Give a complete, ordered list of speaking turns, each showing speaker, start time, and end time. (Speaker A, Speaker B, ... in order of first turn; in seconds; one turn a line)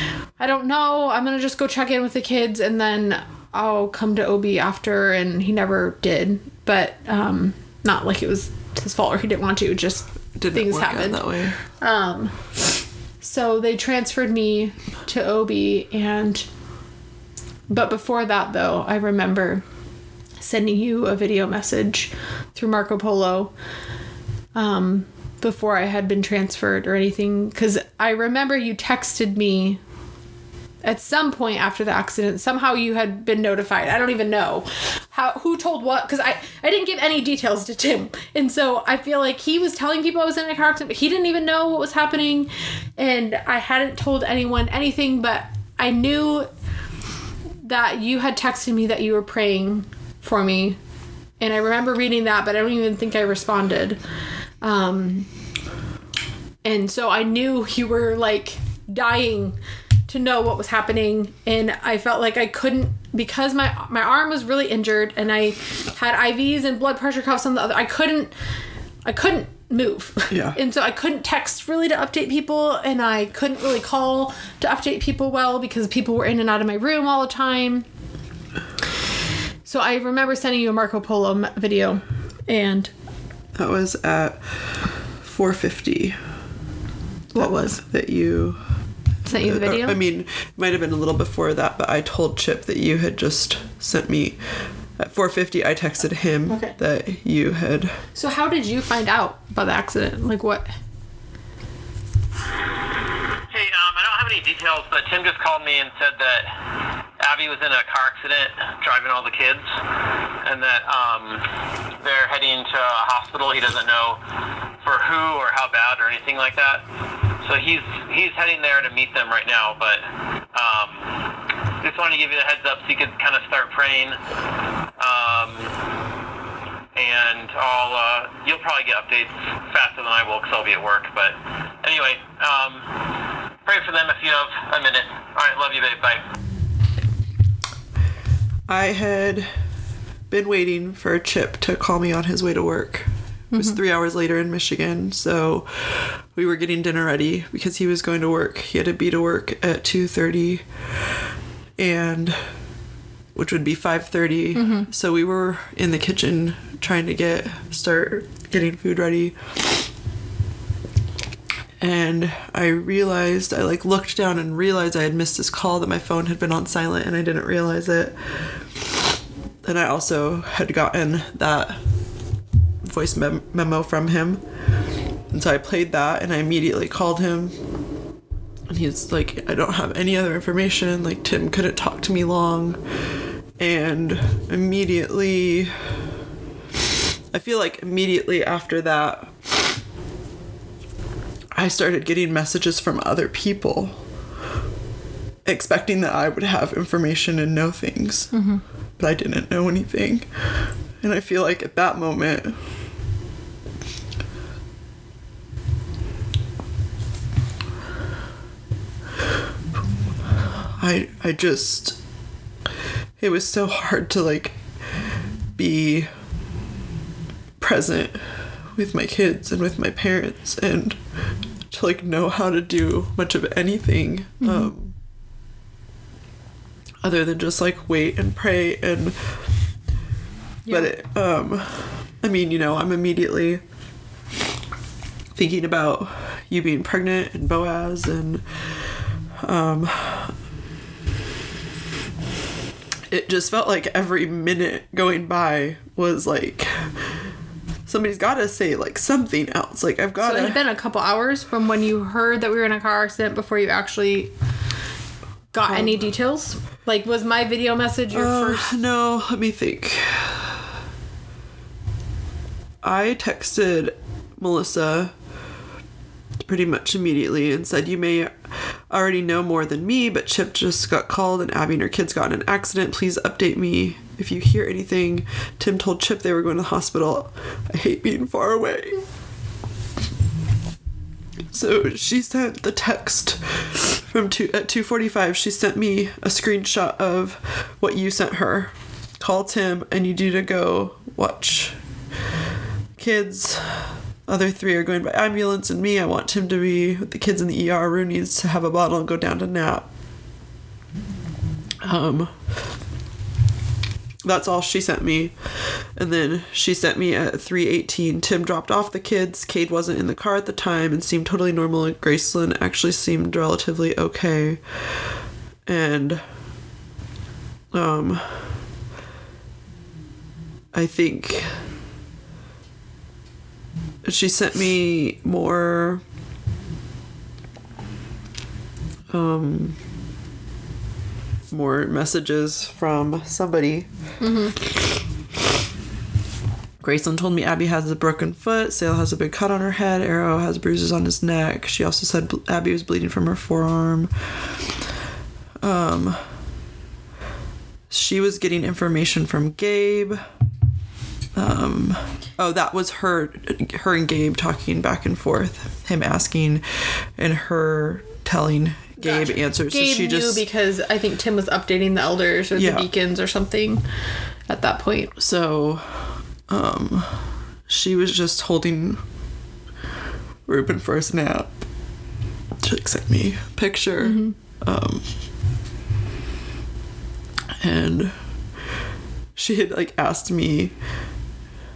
Speaker A: 0.4-12.6
Speaker B: 10.4-11.6
Speaker A: 13.2-16.5
Speaker A: 17.7-19.6
Speaker A: 20.4-23.5
Speaker A: 24.6-29.8
Speaker A: 30.8-46.5
Speaker A: 47.6-50.8
Speaker A: 51.4-54.0
Speaker A: 54.6-55.3
Speaker A: 56.6-59.6
Speaker A: 60.1-68.3
Speaker A: 69.1-77.9
Speaker B: 70.3-70.6
Speaker A: 79.7-82.9
Speaker B: 83.6-86.2
Speaker A: 87.3-87.8
Speaker B: 87.4-88.6
Speaker A: 89.3-90.0
Speaker B: 89.3-94.4
Speaker B: 95.0-98.0
Speaker A: 96.5-96.8
Speaker A: 98.1-100.7
Speaker C: 103.5-106.5
Speaker C: 107.2-109.6
Speaker C: 110.4-111.4
Speaker C: 112.0-114.2
Speaker C: 114.8-116.8
Speaker C: 117.4-121.1
Speaker C: 121.8-124.2
Speaker C: 125.0-125.7
Speaker C: 126.9-133.1
Speaker C: 133.6-136.2
Speaker B: 138.7-139.5
Speaker B: 140.3-150.6
Speaker A: 143.5-143.8
Speaker B: 151.8-152.5
Speaker B: 153.3-159.6
Speaker A: 154.6-154.9
Speaker B: 161.8-168.6
Speaker B: 169.6-171.8
Speaker B: 172.8-174.4
Speaker B: 175.3-177.6
Speaker B: 178.7-182.8
Speaker B: 183.6-185.7
Speaker B: 187.3-189.6
Speaker B: 191.5-194.0
Speaker B: 195.4-198.3
Speaker A: 198.3-198.6
Speaker B: 199.0-202.6
Speaker B: 210.8-212.0
Speaker B: 213.2-214.6
Speaker B: 215.6-216.1
Speaker B: 217.6-221.0
Speaker B: 221.7-224.9
Speaker A: 224.4-224.7
Speaker B: 227.0-229.2
Speaker A: 230.7-230.9
Speaker B: 230.7-233.6
Speaker B: 235.3-238.4
Speaker B: 239.4-240.3
Speaker B: 243.1-246.9
Speaker B: 247.9-250.6
Speaker A: 250.2-254.3
Speaker A: 255.5-258.8
Speaker B: 255.7-256.0
Speaker B: 258.1-260.6
Speaker B: 262.8-265.1
Speaker B: 266.4-279.0
Speaker B: 281.5-291.8
Speaker B: 293.0-299.9
Speaker B: 301.8-302.3
Speaker B: 304.2-314.6
Speaker B: 315.7-316.2
Speaker B: 317.7-318.6
Speaker B: 320.7-321.6
Speaker B: 324.1-326.0
Speaker B: 329.1-329.8
Speaker B: 331.5-333.9
Speaker A: 334.2-334.6
Speaker B: 336.8-344.6
Speaker B: 345.6-346.2
Speaker B: 347.9-350.2
Speaker B: 351.4-360.4
Speaker A: 359.0-363.8
Speaker B: 362.6-362.9
Speaker A: 364.5-365.1
Speaker B: 365.2-369.0
Speaker B: 370.5-371.5
Speaker B: 372.6-375.1
Speaker A: 374.0-374.4
Speaker B: 377.6-378.2
Speaker B: 379.4-380.7